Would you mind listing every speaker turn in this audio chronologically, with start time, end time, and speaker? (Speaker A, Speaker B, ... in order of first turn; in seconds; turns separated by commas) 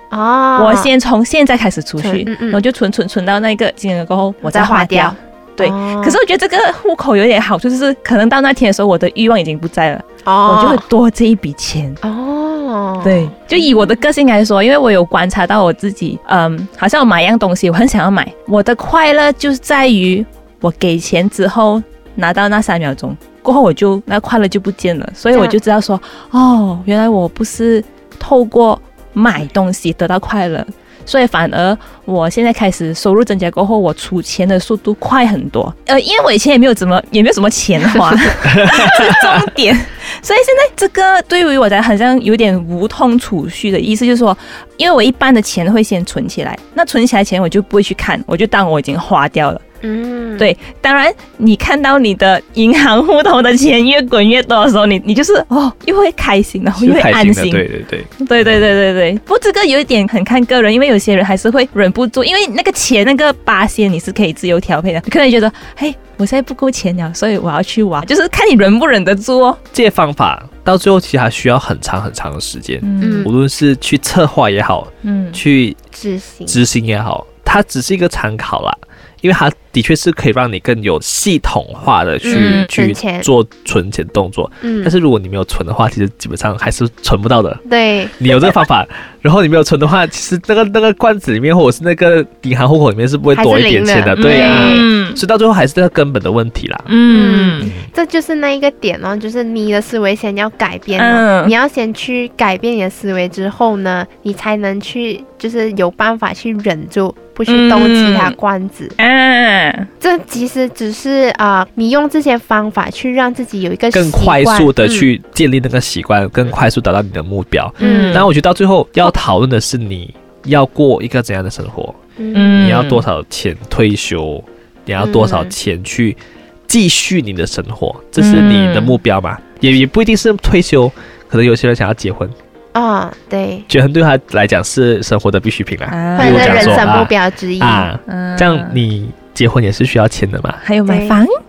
Speaker A: 0.1-0.9, Speaker B: 0.6-12.0, Speaker A: 2.0-2.6, Speaker A: 4.4-6.2, Speaker A: 10.2-10.8, Speaker A: 12.0-13.8, Speaker B: 13.0-49.6, Speaker C: 38.4-39.5, Speaker A: 49.8-50.5, Speaker B: 50.4-57.7, Speaker C: 56.8-58.6, Speaker B: 58.2-69.6, Speaker C: 69.7-75.8, Speaker B: 72.8-73.3, Speaker A: 73.0-73.3, Speaker B: 75.0-75.4, Speaker A: 75.9-76.6, Speaker C: 76.5-87.6, Speaker A: 82.2-83.3, Speaker B: 82.3-82.7, Speaker A: 84.6-84.9, Speaker A: 87.6-88.5, Speaker C: 88.2-96.9, Speaker A: 93.3-94.8, Speaker B: 94.2-95.2, Speaker B: 96.9-97.7, Speaker A: 97.1-109.0, Speaker C: 97.6-97.8, Speaker B: 101.0-101.5, Speaker B: 107.5-108.3, Speaker B: 109.0-109.9, Speaker A: 110.0-115.1, Speaker C: 113.9-122.0, Speaker B: 117.8-118.3, Speaker A: 117.8-118.3, Speaker A: 122.2-122.7, Speaker B: 122.3-123.0, Speaker C: 122.6-132.3, Speaker A: 125.0-125.5, Speaker B: 128.2-129.0, Speaker A: 132.7-133.7, Speaker C: 133.7-140.6, Speaker B: 135.9-136.9, Speaker A: 136.2-137.9, Speaker B: 138.1-138.8, Speaker B: 140.6-141.3, Speaker A: 140.9-141.2